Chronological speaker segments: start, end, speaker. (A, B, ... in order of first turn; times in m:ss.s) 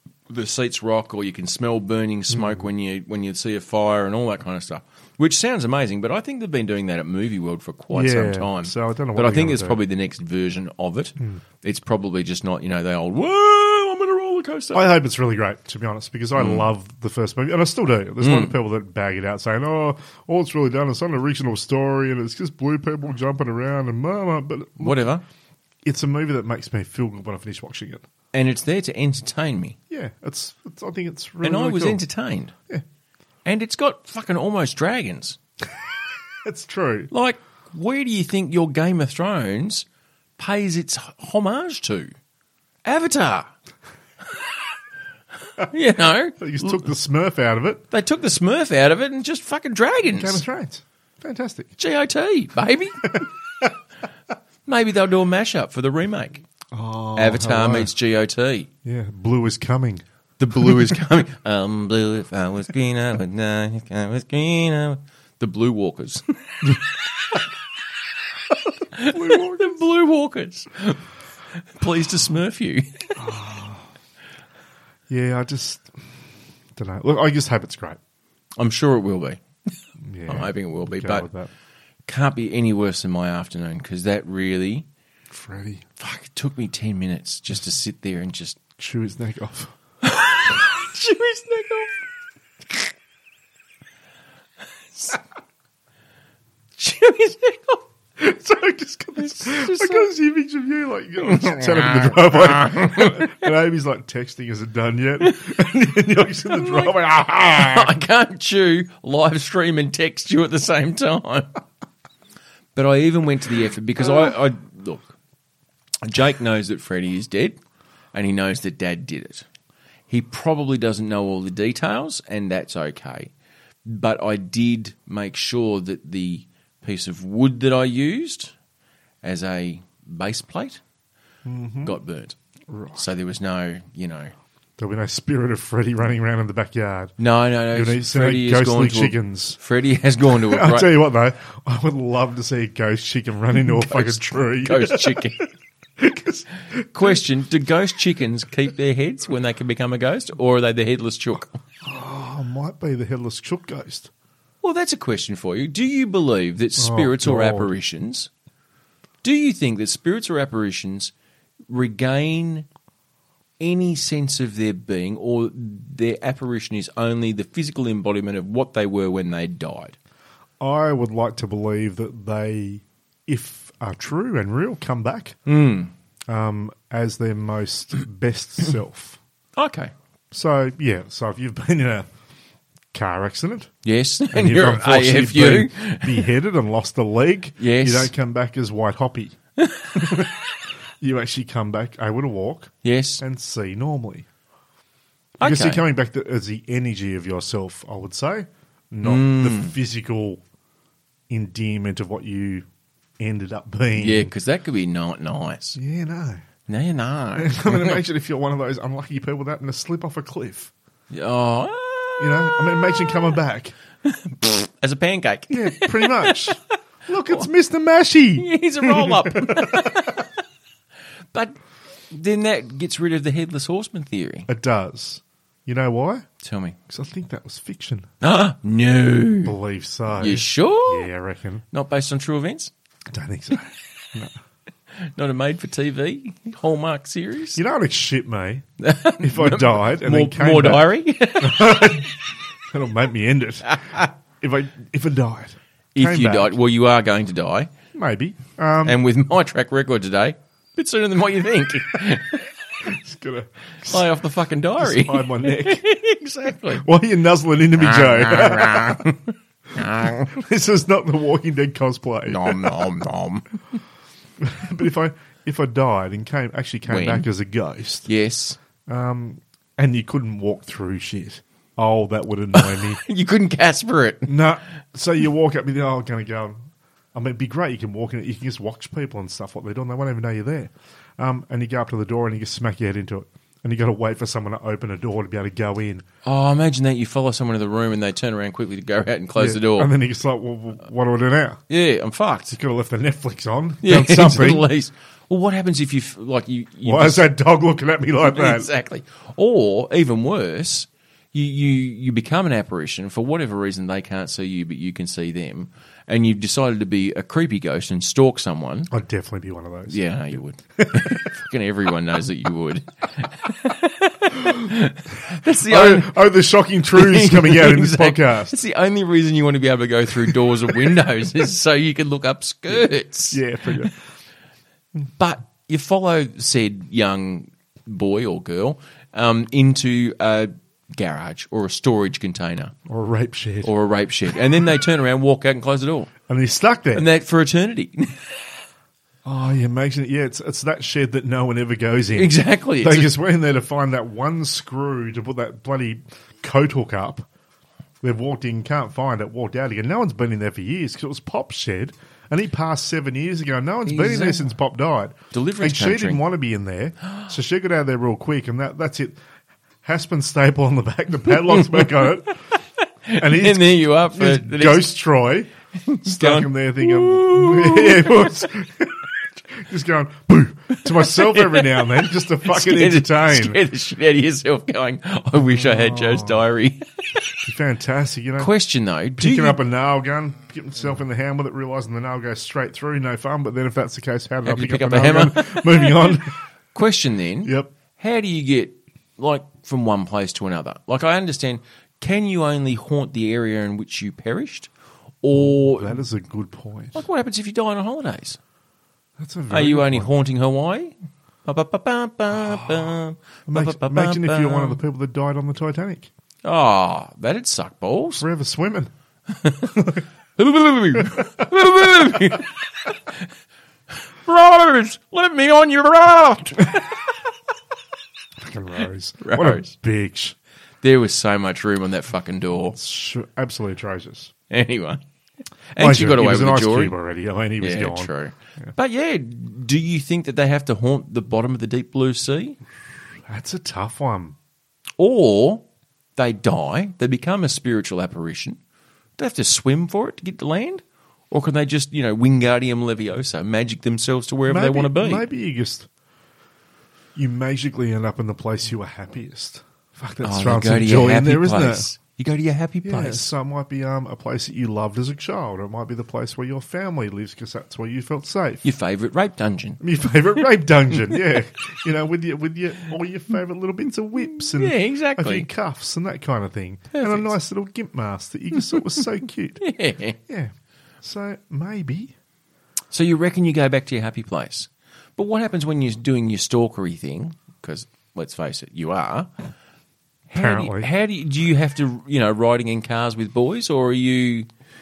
0:00.3-0:14.8 A
0:02.3-0:02.7 B
0:07.9-0:09.8 B
0:14.7-0:25.1 B
0:16.4-0:16.7 A
0:18.2-0:18.6 A
0:24.8-0:25.2 A
0:25.8-0:28.0 B
0:28.3-0:29.8 A
0:29.9-0:32.0 B
0:31.4-0:32.5 A
0:33.4-0:35.4 A
0:36.4-0:37.1 B
0:37.1-0:39.9 A
0:40.4-0:42.1 A
0:42.8-0:43.5 A
0:45.6-0:46.9 A
0:46.4-0:47.8 B
0:47.9-0:50.4 A
0:50.1-0:51.8 B
0:51.8-0:53.3 A
0:53.1-0:53.7 B
0:54.6-0:56.4 A
0:56.7-0:57.9 B
0:57.2-0:58.7 A
0:58.8-1:00.0 B
1:00.4-1:06.9 A
1:00.6-1:00.9 B
1:08.9-1:13.2 A
1:09.1-1:09.8 B
1:13.2-1:13.9 B
1:15.1-1:16.0 B
1:16.7-1:18.0 B
1:18.6-1:19.7 A
1:20.0-1:21.5 B
1:20.3-1:21.3 A
1:22.1-1:24.9 A
1:25.3-1:25.8 B
1:26.0-1:28.6 A
1:28.8-1:29.7 B
1:30.0-1:32.0 A
1:34.9-1:35.2 A
1:36.8-1:37.8 A
1:38.2-1:47.9 B
1:39.2-1:40.1 A
1:41.2-1:43.5 A
1:46.5-1:47.0 A
1:47.5-1:51.5 A
1:52.7-1:55.1 A
1:56.0-1:57.6 A
1:58.1-1:59.4 A
2:00.1-2:03.3 A
2:03.9-2:08.5 A
2:09.2-2:10.8 A
2:11.4-2:12.0 B
2:11.8-2:12.4 A
2:12.7-2:13.0 B
2:13.0-2:14.3 A
2:14.8-2:17.2 B
2:17.2-2:20.9 A
2:17.7-2:19.6 B
2:20.3-2:25.3 B
2:23.6-2:25.5 A
2:26.0-2:27.2 B
2:26.9-2:31.6 A
2:31.8-2:34.1 B
2:34.6-2:38.3 A
2:36.8-2:37.7 B
2:39.2-2:41.1 A
2:41.7-2:42.7 A
2:43.6-2:50.0 A
2:50.6-2:55.4 B
2:55.5-2:55.9 A
2:56.3-2:59.2 B
2:59.6-2:59.9 A
3:00.3-3:02.1 B
3:02.9-3:03.7 B
3:03.8-3:06.3 A
3:04.3-3:09.4 B
3:07.6-3:08.1 A
3:09.6-3:10.3 A
3:09.9-3:10.4 B
3:11.0-3:14.3 B
3:12.8-3:13.2 A
3:15.4-3:20.4 B
3:15.4-3:15.8 A
3:19.0-3:19.8 A
3:21.3-3:22.6 B
3:23.2-3:24.3 B
3:24.0-3:25.8 A
3:25.8-3:26.4 B
3:26.7-3:28.0 A
3:27.4-3:30.7 B
3:31.1-3:32.6 A
3:32.2-3:33.8 B
3:34.0-3:36.5 A
3:35.5-3:40.2 B
3:38.4-3:40.3 A
3:41.3-3:41.6 A
3:42.1-3:44.5 A
3:44.5-3:46.2 B
3:46.4-3:46.8 A
3:46.9-3:48.1 B
3:48.2-3:49.6 A
3:49.4-3:51.6 B
3:50.2-3:51.1 A
3:51.7-3:52.7 A
3:53.1-3:54.4 B
3:54.9-3:57.6 A
3:57.5-3:58.6 B
3:58.8-4:02.1 A
3:59.2-4:02.1 B
4:02.7-4:06.5 B
4:03.7-4:04.1 A
4:05.9-4:07.7 A
4:07.9-4:09.0 B
4:08.8-4:12.5 A
4:12.8-4:14.1 B
4:13.8-4:16.8 A
4:14.8-4:15.8 B
4:16.7-4:19.1 B
4:17.8-4:20.4 A
4:20.0-4:22.8 B
4:22.3-4:23.6 A
4:24.4-4:28.1 B
4:26.9-4:27.3 A
4:28.1-4:28.6 A
4:28.8-4:33.0 B
4:32.5-4:34.4 A
4:34.2-4:36.6 B
4:37.1-4:46.0 B
4:46.2-4:49.9 A
4:49.4-4:51.6 B
4:51.7-4:52.6 A
4:52.5-4:54.7 B
4:53.8-4:57.3 A
4:56.8-4:58.7 B
4:58.2-5:08.9 A
5:08.9-5:10.0 B
5:09.9-5:16.2 A
5:10.8-5:11.3 B
5:14.4-5:14.7 B
5:15.3-5:18.6 B
5:16.9-5:23.9 A
5:20.3-5:20.9 B
5:23.3-5:24.0 B
5:25.1-5:32.7 A
5:32.9-5:33.7 B
5:33.6-5:36.1 A
5:36.3-5:37.1 B
5:36.9-5:38.4 A
5:39.2-5:47.3 B
5:42.1-5:43.1 A
5:48.0-5:59.2 B
5:53.8-5:54.5 A
5:55.3-5:56.2 A
5:59.8-6:02.4 B
6:01.3-6:04.9 A
6:03.1-6:05.5 B
6:05.8-6:08.4 A
6:06.0-6:13.6 B
6:10.8-6:17.2 A
6:15.5-6:16.4 B
6:17.4-6:18.5 B
6:18.4-6:19.6 A
6:19.2-6:26.4 B
6:24.5-6:34.7 A
6:27.4-6:27.7 B
6:35.2-6:36.0 A
6:35.3-6:37.0 B
6:36.9-6:38.4 A
6:39.2-6:40.1 B
6:39.5-6:40.9 A
6:41.4-6:44.8 A
6:42.6-6:42.8 B
6:43.5-6:46.1 B
6:46.4-6:48.2 A
6:48.2-6:48.9 B
6:49.3-6:49.8 A
6:49.8-6:50.0 B
6:50.4-6:53.3 A
6:54.2-6:57.1 A
6:58.4-7:00.4 B
6:59.2-6:59.7 A
7:00.8-7:02.8 A
7:02.8-7:04.3 B
7:04.5-7:05.0 A
7:05.8-7:06.9 A
7:05.8-7:08.1 B
7:07.6-7:12.6 A
7:13.3-7:14.4 B
7:15.0-7:15.6 A
7:16.2-7:18.6 A
7:19.2-7:25.2 A
7:24.5-7:25.9 B
7:27.2-7:31.9 B
7:30.2-7:33.3 A
7:32.8-7:38.6 B
7:38.6-7:39.8 A
7:39.8-7:49.6 B
7:44.2-7:45.5 A
7:46.9-7:47.3 A
7:49.6-7:50.2 A
7:50.3-7:52.1 B
7:52.9-7:59.3 A
8:00.3-8:04.5 A
8:00.4-8:00.9 B